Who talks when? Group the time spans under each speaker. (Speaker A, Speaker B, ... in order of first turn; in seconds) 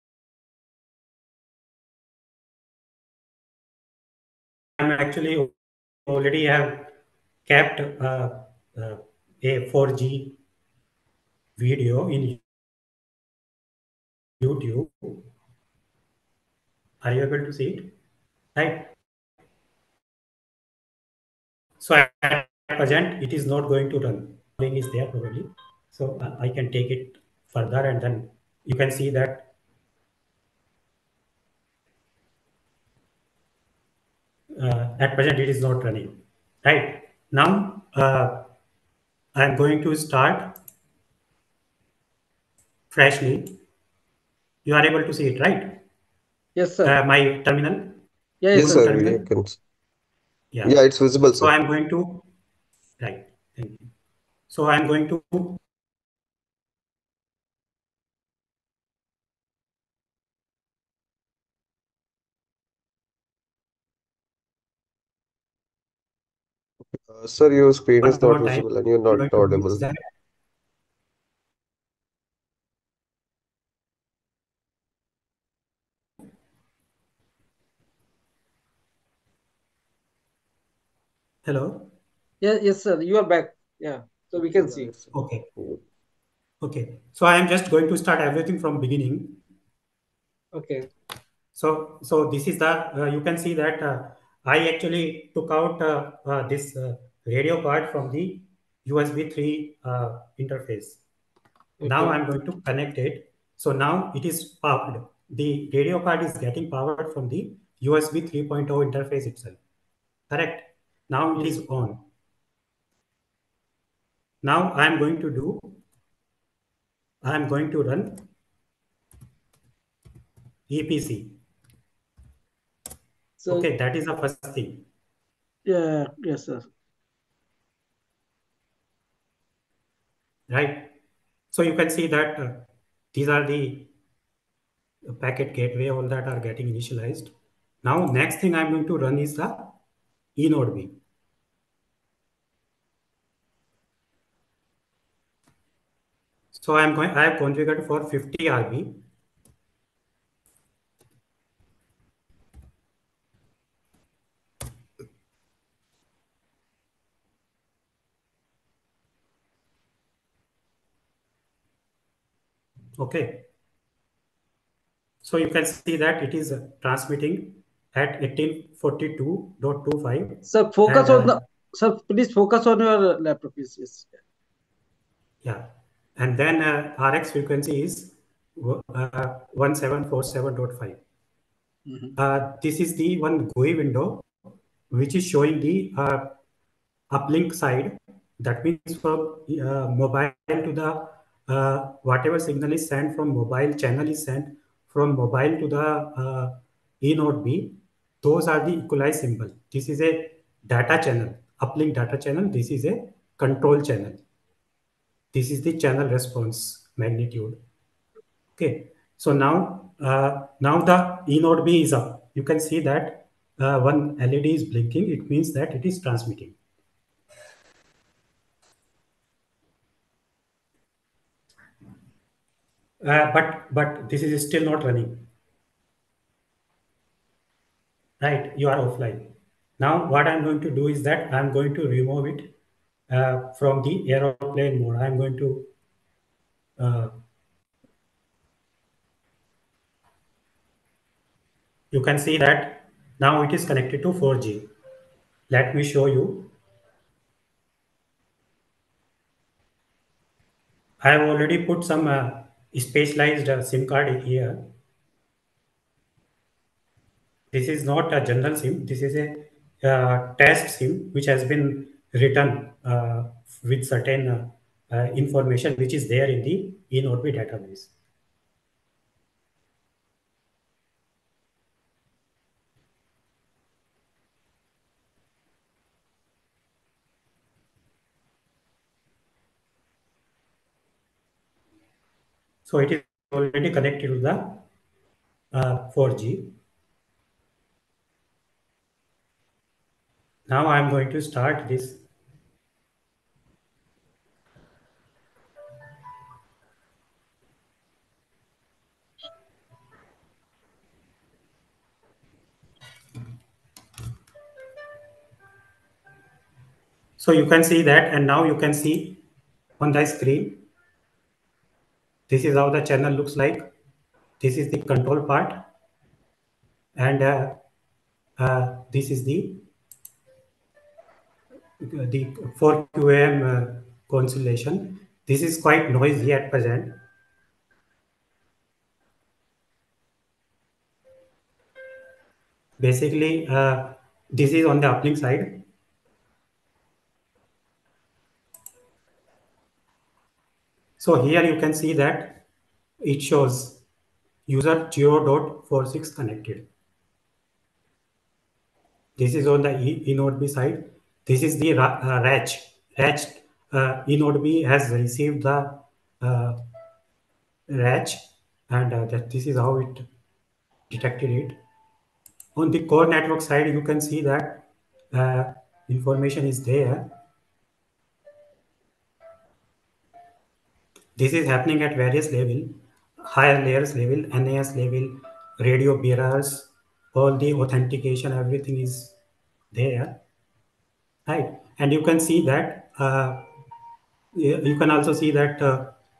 Speaker A: 4.8-5.5, 6.0-6.9, 7.5-10.4, 11.6-12.4, 14.4-15.2, 17.0-17.9, 18.6-18.9, 21.8-29.5, 34.5-38.5, 39.3-40.6, 42.9-43.6, 44.6-45.8, 46.8-48.0, 48.6-49.0, 50.5-52.3, 53.0-53.9, 54.5-55.6, 68.0-70.0, 81.5-81.9, 85.1-85.5, 86.6-89.4, 91.5-101.0, 101.8-109.6, 110.3-112.0, 114.4-115.8, 117.2-118.2, 120.7-121.4, 123.5-124.9, 130.5-130.9, 131.5-133.9, 135.1-139.8, 140.3-140.9, 146.5-149.0, 163.0-163.5, 165.2-171.4, 176.2-181.0, 182.2-184.2, 184.9-186.3, 187.1-204.2, 205.3-207.6, 208.6-216.6, 223.0-225.3, 228.2-232.5, 233.1-235.7, 236.8-237.2, 241.9-244.7, 245.5-246.5, 251.0-254.7, 257.5-267.9, 282.6-284.6, 285.5-286.6, 290.5-292.0, 307.2-309.2, 309.8-310.6, 312.3-313.7, 314.4-315.6, 316.9-317.6, 318.4-319.6, 321.8-327.0, 332.8-335.6, 341.0-342.4, 343.0-343.8, 344.5-346.7, 349.2-356.6, 357.7-360.1, 360.9-361.6, 362.6-367.1, 371.2-379.1, 379.7-380.2, 381.3-383.5, 384.3-385.9
Speaker B: 46.5-46.9, 48.4-49.2, 82.4-84.9, 90.5-90.9, 101.8-102.2, 125.7-126.7, 170.5-174.2, 181.9-182.1
Speaker C: 48.5-49.6, 50.6-51.5, 67.1-69.8